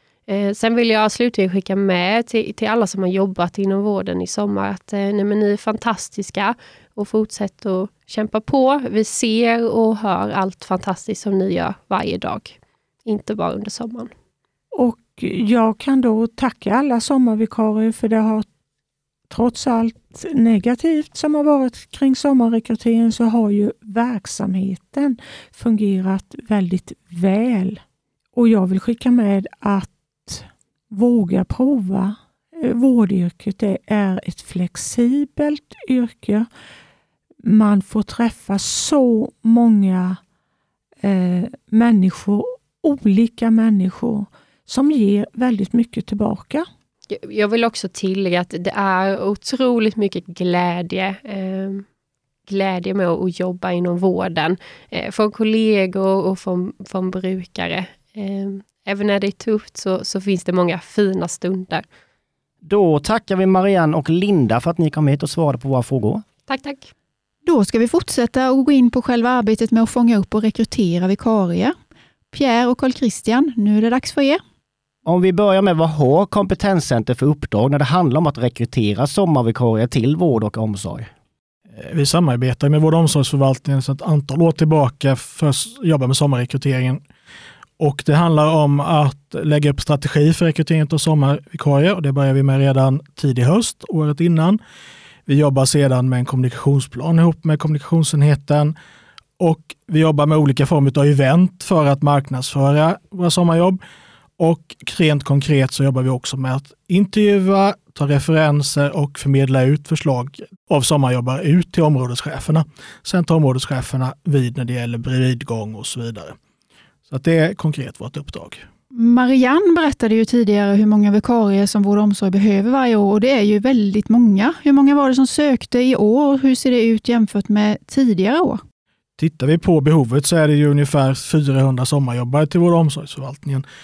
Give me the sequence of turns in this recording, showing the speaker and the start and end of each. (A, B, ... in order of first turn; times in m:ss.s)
0:00.3-0:14.1 A
0:14.7-0:18.5 B
0:19.3-0:27.8 B
0:28.4-0:36.5 B
0:37.4-0:40.2 B
0:41.0-0:46.7 B
0:47.1-0:51.8 A
0:52.5-1:01.8 A
1:02.6-1:06.2 C
1:06.5-1:06.9 A
1:07.4-1:11.7 D
1:12.3-1:14.4 D
1:15.0-1:21.1 C
1:21.8-1:27.0 E
1:27.8-1:34.6 E
1:35.3-1:38.7 E
1:39.4-1:43.8 E
1:44.4-1:56.4 E
1:57.1-1:58.6 E
1:58.9-2:08.6 D
2:09.2-2:13.6 E